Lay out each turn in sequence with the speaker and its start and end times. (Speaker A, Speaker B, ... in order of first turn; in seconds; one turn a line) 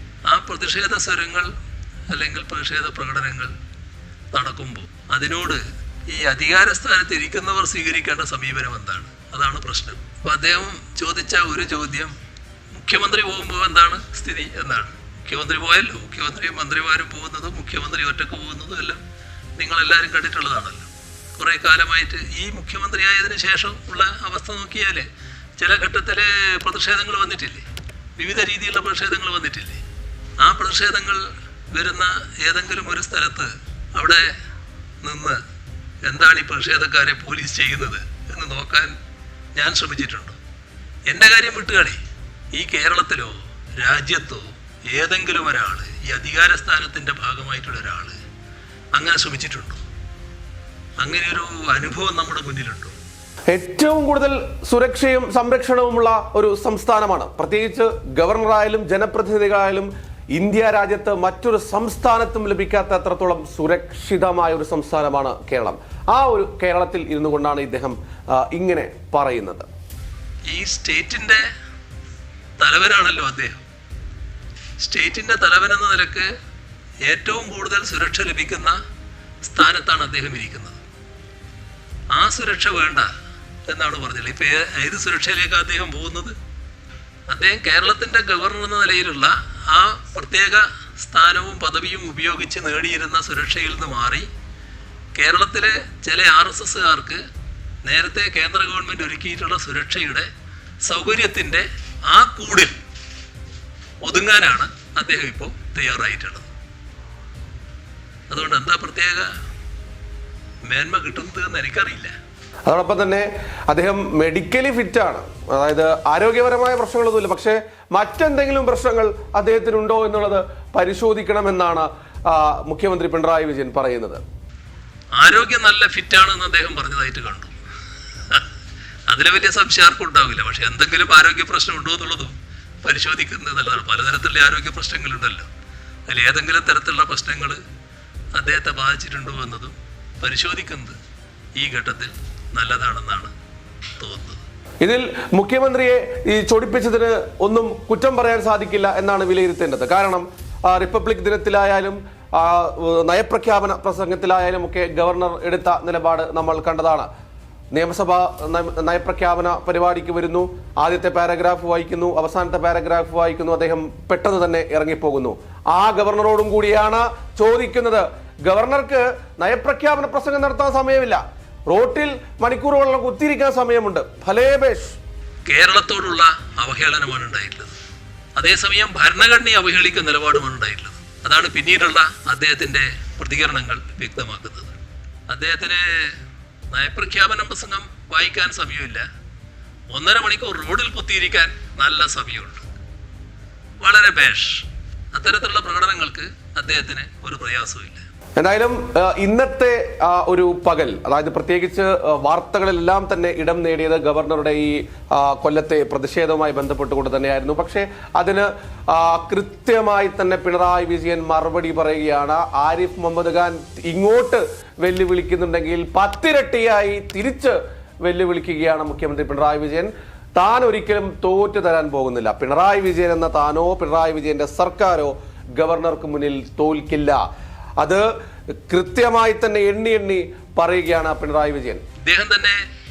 Speaker A: 0.3-1.5
Speaker A: 2.1-3.5
Speaker A: 4.3-12.1
Speaker A: 12.7-19.0
Speaker A: 19.6-25.1
Speaker A: 25.6-27.6
Speaker A: 28.2-29.8
Speaker A: 30.4-34.3
Speaker A: 35.0-35.4
Speaker A: 36.0-38.9
Speaker A: 39.5-40.4
Speaker A: 41.1-42.0
Speaker A: 42.5-48.1
Speaker A: 49.0-49.8
Speaker A: 51.0-52.9
Speaker B: 53.5-69.7
Speaker A: 70.5-71.4
Speaker A: 72.6-73.6
Speaker A: 74.8-76.3
Speaker A: 77.1-78.8
Speaker A: 79.4-80.8
Speaker A: 82.1-83.1
Speaker A: 83.7-86.3
Speaker A: 87.3-94.3
Speaker A: 95.2-97.2
Speaker A: 97.8-100.3
Speaker A: 100.9-102.8
Speaker A: 104.0-106.5
Speaker A: 108.3-109.3
Speaker A: 110.7-112.1
Speaker B: 112.7-124.2
Speaker A: 125.2-127.5
Speaker A: 129.1-135.5
Speaker A: 136.1-137.6
Speaker A: 138.3-141.0
Speaker A: 141.6-143.3
Speaker A: 144.0-144.4
Speaker B: 144.8-157.1
Speaker B: 157.7-175.0
Speaker A: 175.5-177.8
Speaker A: 178.4-184.7
Speaker A: 185.3-186.2
Speaker A: 186.7-189.0
Speaker A: 189.9-192.7
Speaker A: 193.8-198.0
Speaker B: 198.4-227.2
Speaker B: 227.8-228.1
Speaker B: 228.7-231.8
Speaker A: 232.0-232.6